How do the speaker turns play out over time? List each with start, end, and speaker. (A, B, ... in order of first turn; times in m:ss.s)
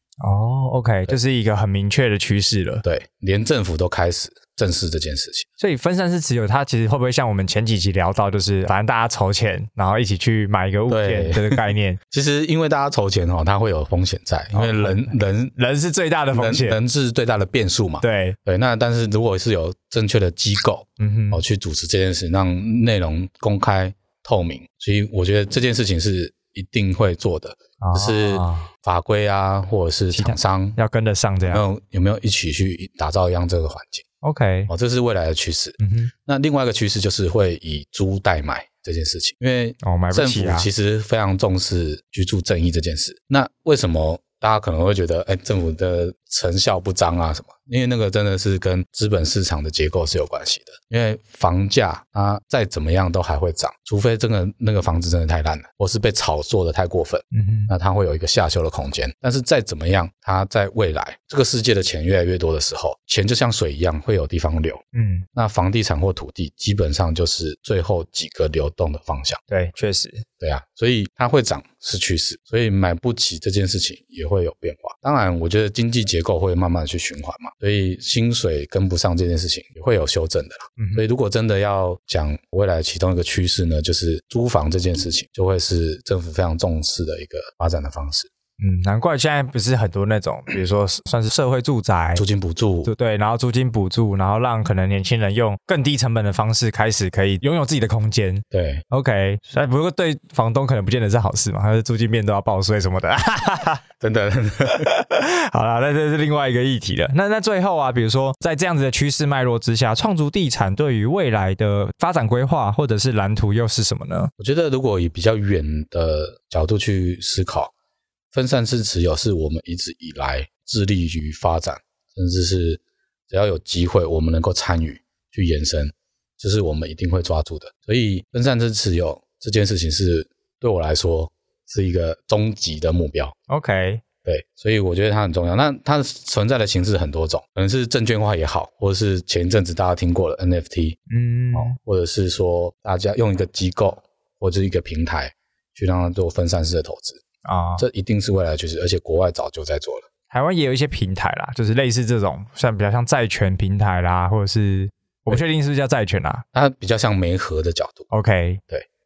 0:00.2-0:02.8 A
0:02.8-0:05.5 B
0:05.6-0:12.0 A
0:10.9-0:15.5 B
0:14.5-0:16.8 A
0:16.3-0:30.8 B
0:18.0-0:18.4 A
0:21.0-0:21.4 A
0:27.8-0:28.7 A
0:30.1-0:31.6 A
0:31.5-0:34.0 B
0:34.2-0:34.7 A
0:34.7-1:04.8 B
0:35.8-0:36.1 A
0:39.8-0:40.7 A
0:57.3-0:57.7 A
1:04.9-1:05.3 A
1:05.3-1:09.4 B
1:09.5-1:10.2 A
1:10.4-1:28.3 B
1:20.8-1:21.0 A
1:28.6-1:32.2 A
1:32.2-1:32.9 B
1:32.8-1:43.8 A
1:38.5-1:38.8 B
1:44.0-1:44.9 B
1:44.7-1:54.3 A
1:54.4-1:57.7 B
1:58.3-2:13.4 B
2:13.5-2:14.0 A
2:14.2-2:21.0 B
2:21.1-2:21.8 A
2:21.5-2:27.2 B
2:27.4-2:27.8 A
2:27.8-2:30.0 B
2:30.3-2:36.4 A
2:36.5-2:38.1 B
2:38.1-2:38.6 A